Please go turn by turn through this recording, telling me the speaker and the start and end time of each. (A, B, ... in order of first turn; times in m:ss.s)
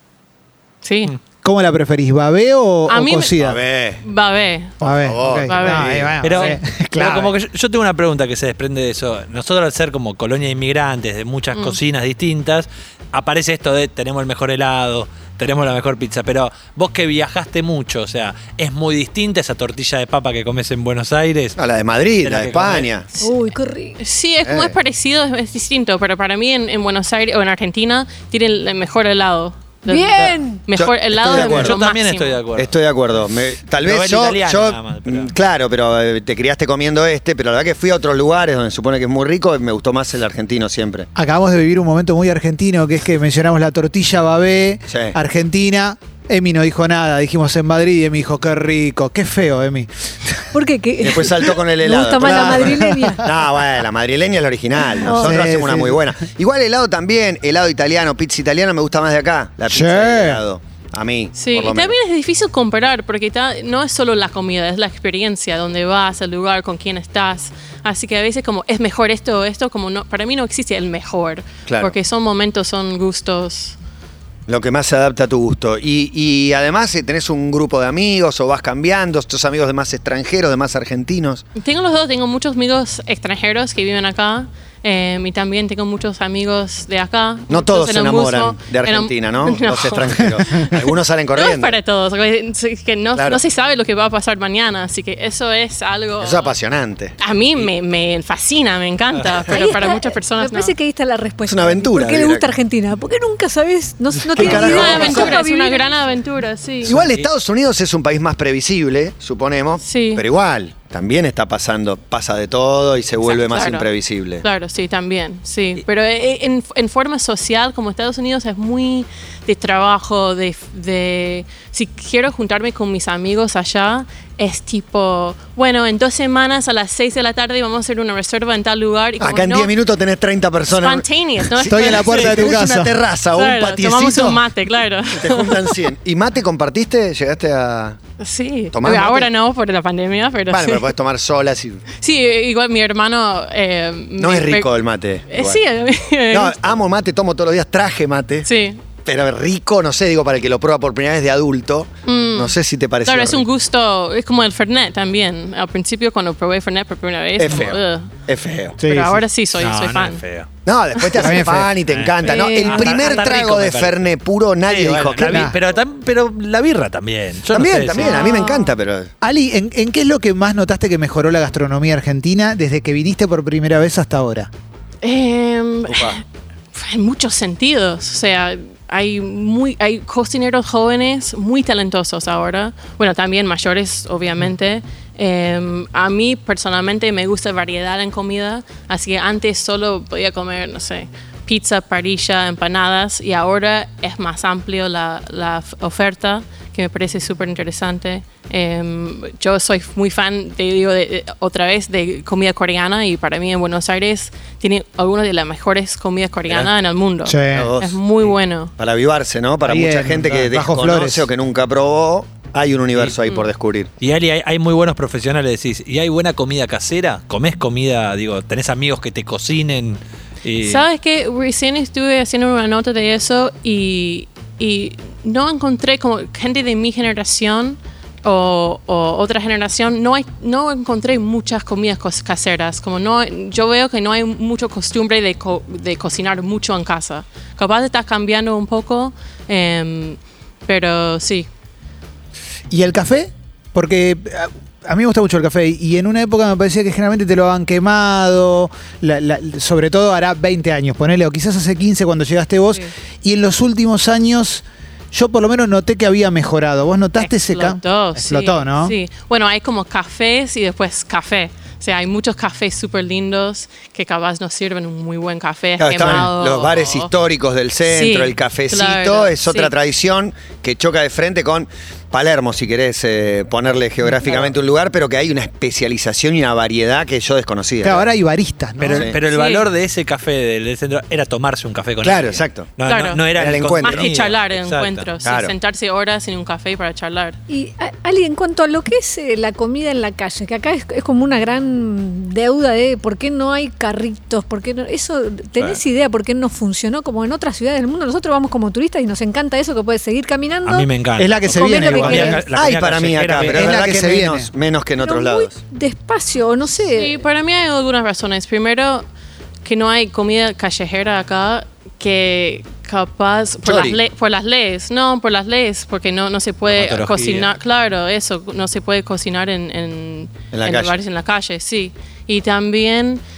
0:00.8-0:01.1 A
0:01.4-0:03.6 B
0:02.9-0:03.3 A
0:03.4-0:04.0 C
0:04.0-0:04.8 A
0:04.8-0:06.2 C
0:04.8-0:07.3 B
0:05.4-0:06.4 A
0:06.2-0:21.6 D
0:21.6-0:23.1 C
0:22.2-0:22.9 D
0:23.2-0:24.0 E
0:24.0-0:32.4 A
0:24.4-0:24.7 C
0:29.8-0:30.6 E
0:30.8-0:31.7 C
0:31.3-0:32.8 D
0:32.6-0:41.1 C
0:33.8-0:35.3 D
0:41.2-0:50.4 B
0:44.9-0:45.2 C
0:50.5-0:53.2 E
0:51.0-1:02.0 C
0:52.2-0:53.2 B
0:55.0-0:55.4 E
0:55.1-0:56.0 B
0:59.7-1:00.4 B
1:01.3-1:13.8 A
1:11.6-1:11.9 C
1:14.5-1:21.4 C
1:21.6-1:36.5 A
1:27.5-1:31.8 C
1:36.2-1:37.7 C
1:37.2-1:40.7 A
1:39.4-1:46.0 E
1:41.4-1:42.5 C
1:44.3-1:45.4 C
1:44.3-1:46.9 A
1:46.8-1:47.3 D
1:46.8-1:54.4 C
1:49.8-1:50.2 A
1:53.2-1:53.9 A
1:54.4-2:09.7 A
2:09.2-2:14.4 C
2:10.7-2:12.6 A
2:11.7-2:13.0 B
2:13.3-2:15.8 A
2:15.1-2:18.0 C
2:18.2-2:20.9 A
2:18.7-2:19.3 C
2:20.5-2:21.8 C
2:22.0-2:24.7 A
2:24.2-2:25.6 C
2:25.3-2:26.6 A
2:26.3-2:28.5 C
2:28.4-2:28.8 A
2:29.0-2:33.4 C
2:32.0-2:38.1 A
2:37.4-2:38.8 C
2:38.8-2:39.2 B
2:38.8-2:40.2 A
2:39.6-2:40.5 D
2:40.6-2:45.5 C
2:41.1-2:41.7 B
2:41.9-2:44.0 D
2:42.2-2:43.1 E
2:44.6-2:48.3 D
2:45.3-2:45.5 B
2:47.5-2:49.1 C
2:47.9-2:48.7 A
2:49.2-2:54.5 B
2:55.0-2:56.2 A
2:55.9-2:56.2 C
2:56.7-3:28.7 A
3:27.2-3:27.7 B
3:27.5-3:28.0 C
3:28.8-3:33.9 C
3:29.6-3:31.3 B
3:34.0-3:40.8 D
3:40.6-4:01.5 A
4:02.7-4:19.0 B
4:17.2-4:27.1 A
4:25.8-4:38.1 C
4:26.0-4:26.3 B
4:27.8-4:29.7 A
4:37.8-4:39.1 B
4:38.8-4:45.1 D
4:38.9-4:39.2 C
4:39.2-4:39.7 A
4:42.0-4:42.7 C
4:42.8-4:43.2 A
4:43.3-4:44.1 C
4:43.8-4:47.4 A
4:45.2-4:45.5 C
4:47.5-5:00.9 E
5:00.6-5:03.8 D
5:01.2-5:02.4 B
5:01.4-5:02.4 E
5:02.5-5:05.6 C
5:03.5-5:04.5 B
5:05.0-5:07.2 E
5:06.9-5:09.0 A
5:09.6-5:23.2 A
5:13.6-5:14.0 C
5:16.7-5:17.6 D
5:20.5-5:21.0 C